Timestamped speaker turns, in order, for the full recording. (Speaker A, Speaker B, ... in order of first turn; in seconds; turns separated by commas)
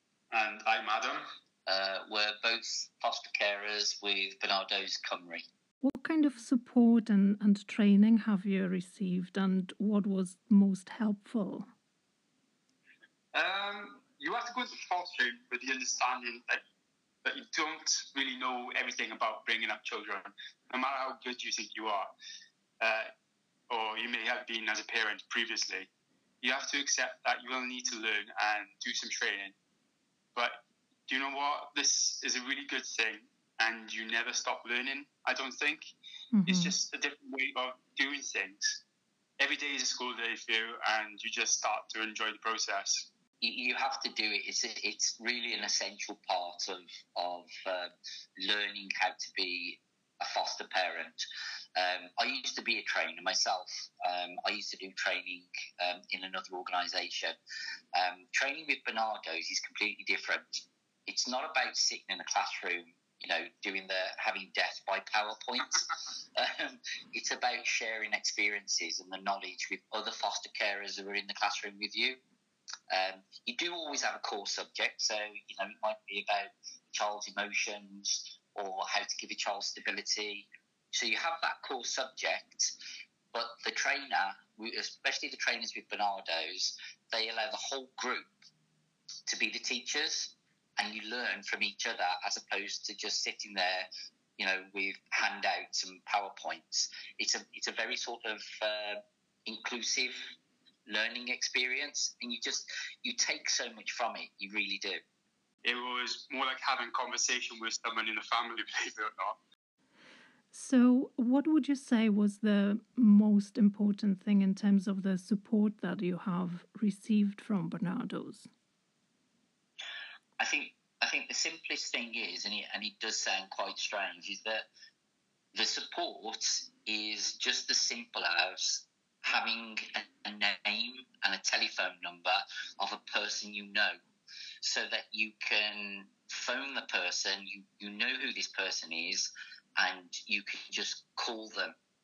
Speaker A: 0.3-1.2, Speaker B: 1.7-5.4, Speaker C: 5.8-11.7, Speaker A: 13.3-16.6, Speaker A: 17.2-22.1, Speaker A: 22.8-23.1, Speaker A: 23.7-25.9, Speaker A: 26.4-29.5, Speaker A: 30.3-35.9, Speaker C: 36.3-36.7, Speaker A: 36.4-38.8, Speaker A: 39.4-43.1, Speaker B: 43.4-51.2, Speaker B: 51.8-57.4, Speaker B: 57.9-65.8, Speaker B: 66.4-72.2, Speaker B: 72.9-82.7, Speaker B: 83.3-88.3, Speaker B: 89.3-100.3, Speaker B: 100.9-105.0, Speaker A: 105.6-109.4, Speaker C: 110.5-118.5, Speaker B: 120.4-124.7, Speaker B: 125.5-134.0, Speaker B: 134.6-141.8